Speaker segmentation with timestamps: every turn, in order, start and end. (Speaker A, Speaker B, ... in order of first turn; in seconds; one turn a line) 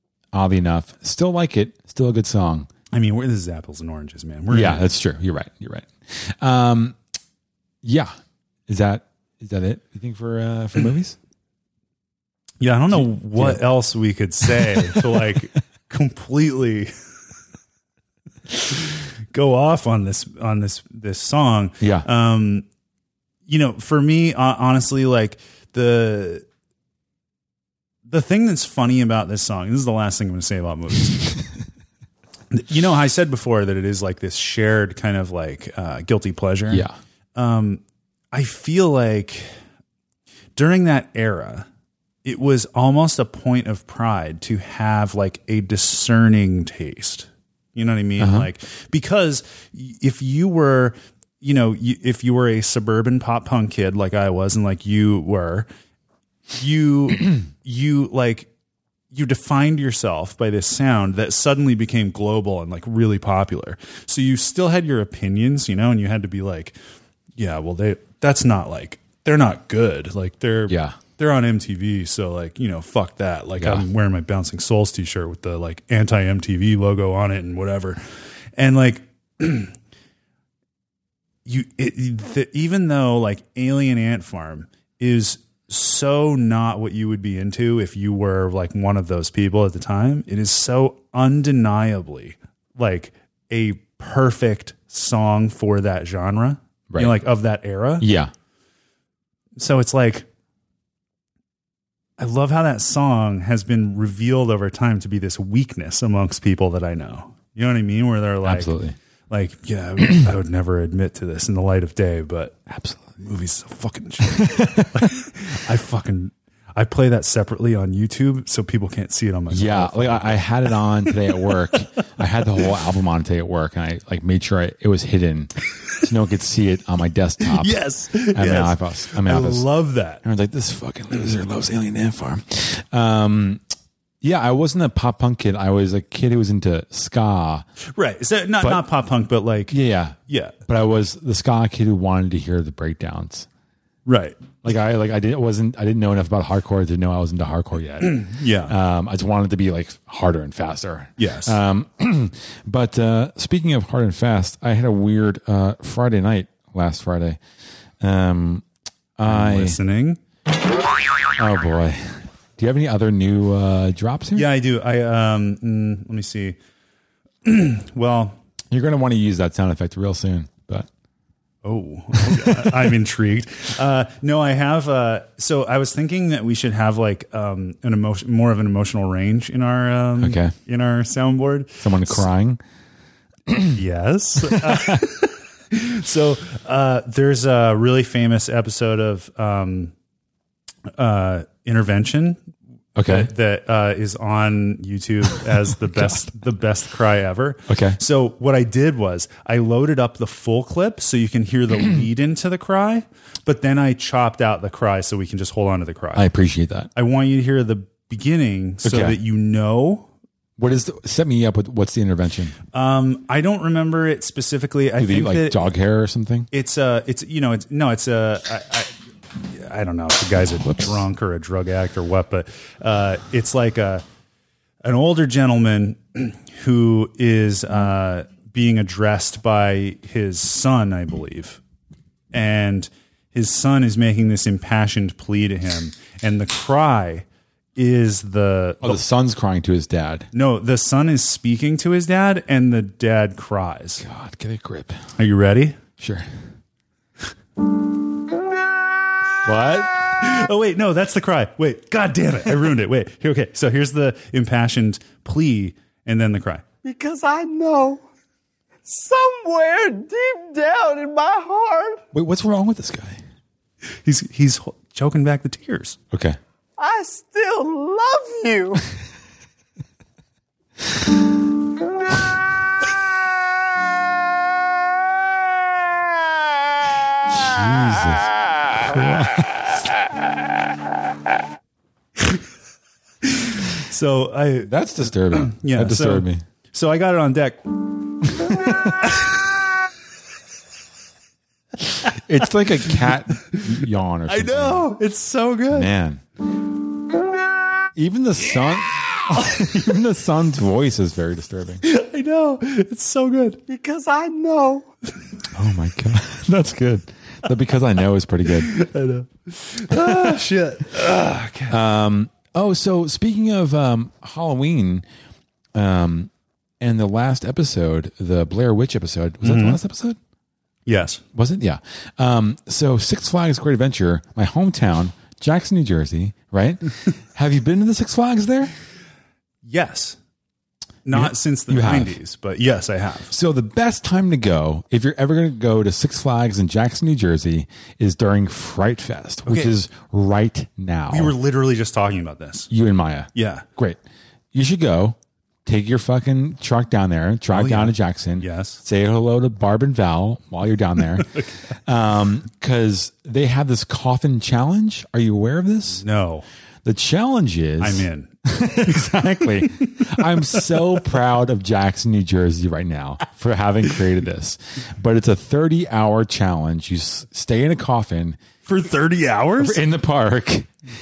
Speaker A: 0.3-2.7
Speaker B: 2.9-4.8
Speaker A: 4.5-7.0
Speaker A: 7.8-8.1
Speaker A: 8.7-11.2
Speaker B: 12.6-16.9
Speaker A: 12.9-13.6
Speaker A: 14.4-15.2
Speaker B: 18.5-22.6
Speaker A: 21.8-22.1
Speaker B: 23.5-26.4
Speaker B: 28.1-31.3
Speaker B: 32.5-39.5
Speaker A: 36.7-36.9
Speaker B: 40.5-41.7
Speaker B: 42.2-55.7
Speaker A: 48.2-48.5
Speaker B: 56.5-58.5
Speaker B: 59.1-66.7
Speaker B: 67.4-78.0
Speaker A: 70.7-71.0
Speaker A: 73.6-73.8
Speaker B: 78.5-79.7
Speaker B: 81.5-98.0
Speaker A: 96.9-97.2
Speaker A: 98.0-98.3
Speaker B: 99.6-100.3
Speaker B: 102.2-108.7
Speaker A: 108.4-108.9
Speaker B: 109.3-112.6
Speaker A: 112.7-113.1
Speaker B: 113.2-121.5
Speaker A: 114.4-115.1
Speaker A: 119.5-127.8
Speaker B: 127.4-130.2
Speaker A: 128.3-129.7
Speaker A: 130.2-133.6
Speaker A: 134.2-137.6
Speaker B: 137.9-139.8
Speaker A: 139.7-143.5
Speaker B: 140.3-140.6
Speaker B: 144.1-144.4
Speaker A: 144.6-157.4
Speaker B: 148.1-148.7
Speaker B: 151.2-151.6
Speaker A: 158.0-158.6
Speaker A: 159.2-159.8
Speaker B: 159.2-160.2
Speaker A: 161.3-164.5
Speaker B: 164.3-166.6
Speaker B: 167.4-168.4
Speaker A: 168.7-170.9
Speaker B: 171.6-182.2
Speaker A: 172.2-172.7
Speaker A: 180.2-180.5
Speaker A: 181.8-182.6
Speaker A: 183.5-183.8
Speaker B: 183.7-189.9
Speaker A: 184.5-185.0
Speaker B: 190.9-192.4
Speaker A: 192.9-193.3
Speaker B: 193.0-206.3
Speaker A: 197.7-198.0
Speaker A: 206.1-206.9
Speaker B: 206.9-210.1
Speaker A: 208.8-209.2
Speaker A: 210.6-212.5
Speaker B: 212.7-215.7
Speaker A: 215.0-216.5
Speaker B: 216.5-218.9
Speaker B: 219.4-224.0
Speaker A: 220.6-221.0
Speaker B: 224.8-231.6
Speaker B: 232.3-239.0
Speaker A: 238.8-240.3
Speaker B: 240.3-244.0
Speaker A: 244.0-245.0
Speaker B: 245.2-245.8
Speaker A: 246.0-246.3
Speaker A: 249.4-250.0
Speaker B: 250.1-256.6
Speaker C: 256.8-258.0
Speaker C: 258.8-262.0
Speaker A: 262.1-263.2
Speaker B: 264.0-266.0
Speaker A: 266.1-266.4
Speaker C: 266.8-268.8
Speaker A: 277.3-279.7
Speaker B: 283.2-284.7
Speaker A: 284.6-286.4
Speaker B: 285.3-287.6
Speaker A: 288.3-289.0
Speaker B: 289.0-289.3
Speaker A: 292.0-294.9
Speaker B: 294.3-295.9
Speaker A: 295.7-296.2
Speaker A: 297.9-301.8
Speaker B: 301.8-303.6
Speaker C: 303.7-304.9
Speaker A: 305.5-308.7
Speaker B: 308.6-311.8
Speaker A: 310.1-310.3
Speaker A: 311.7-315.0
Speaker A: 315.7-320.2
Speaker B: 319.4-319.8
Speaker B: 320.9-321.2
Speaker A: 321.3-328.7
Speaker B: 329.6-330.2
Speaker B: 331.1-333.3
Speaker A: 331.1-332.2
Speaker A: 333.3-341.3
Speaker B: 339.4-339.7
Speaker B: 341.1-342.7
Speaker A: 342.7-344.0
Speaker B: 343.3-343.6
Speaker A: 344.5-356.0
Speaker B: 347.5-348.8
Speaker B: 355.9-356.4
Speaker A: 356.8-368.4
Speaker B: 357.8-358.3
Speaker B: 359.8-360.1
Speaker B: 368.6-369.8
Speaker A: 369.6-370.7